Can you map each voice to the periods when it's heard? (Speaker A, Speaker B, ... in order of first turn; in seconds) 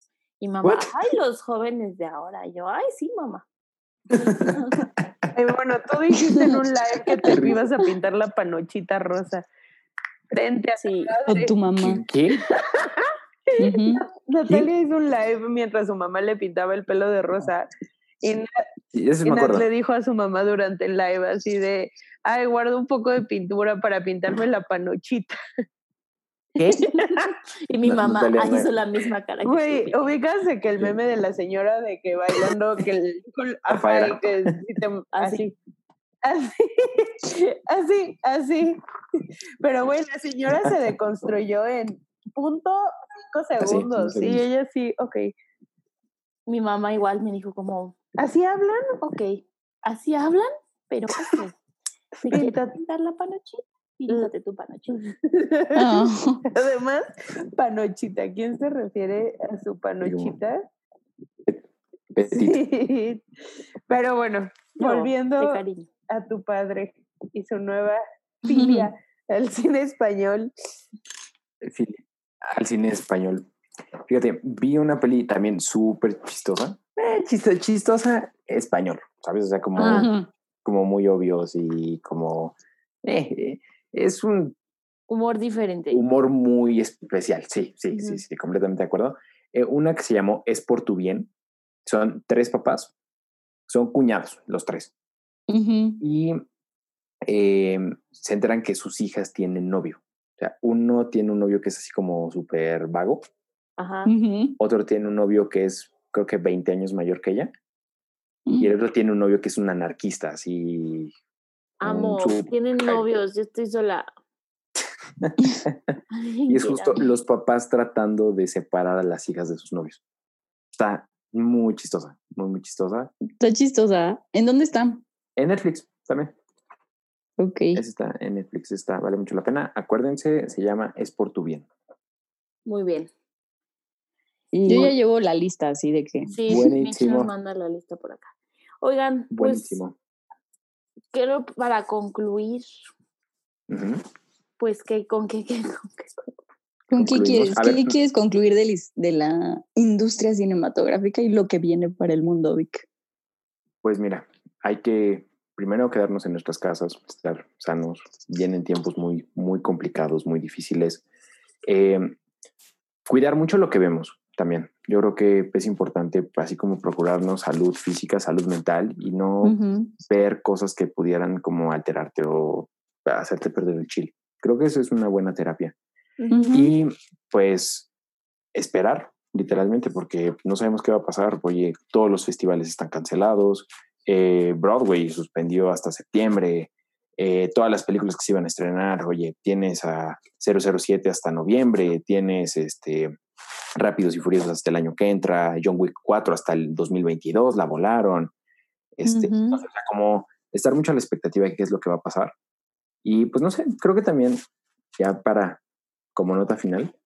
Speaker A: 0.4-3.4, 4.4-4.8, 10.8-11.2, 27.7-30.0, 35.1-35.4, 46.5-47.9, 49.0-51.5, 52.2-55.0, 64.8-65.9, 79.8-80.1, 85.1-86.0, 87.9-88.2, 103.8-104.1, 111.8-114.1, 116.1-117.0, 132.7-133.1, 136.3-138.3, 138.8-139.8, 141.1-142.9, 144.6-146.3, 176.2-176.6
Speaker B: 0.6-0.9, 4.1-5.3, 7.2-7.6, 11.8-12.4, 18.9-19.7, 26.6-27.0, 27.8-28.7, 33.7-34.6, 43.6-44.5, 60.0-60.4, 62.1-62.6, 71.6-73.5, 74.1-80.1, 80.6-84.5, 85.9-91.3, 91.8-92.9, 93.7-94.9, 96.0-96.4, 97.2-103.2, 104.6-107.5, 108.6-111.1, 111.8-113.0, 115.2-120.0, 120.7-123.1, 125.3-126.3, 127.7-131.7, 134.7-134.9, 136.4-137.3, 139.3-139.9, 143.7-144.0, 146.9-147.9, 153.8-161.0, 161.6-162.2, 163.1-175.7, 176.5-177.9, 178.5-193.1, 193.8-198.3, 199.0-202.3, 203.0-204.4, 205.0-205.6, 206.1-206.9
Speaker C: 5.3-9.4, 10.3-11.5, 12.5-17.7, 18.2-18.6, 19.2-25.4, 26.8-27.3, 29.4-35.5, 36.2-45.3, 48.2-48.9, 52.2-52.8, 54.9-60.6, 62.3-63.2, 63.9-70.5
Speaker D: 6.1-6.5, 11.2-12.0, 13.6-14.0, 55.7-56.4, 68.5-68.9, 79.8-80.3, 95.5-96.0, 104.1-104.6, 108.5-108.7, 123.4-125.0, 127.4-127.8, 134.5-136.3, 146.9-152.8, 169.4-169.9, 176.3-176.7, 199.0-199.6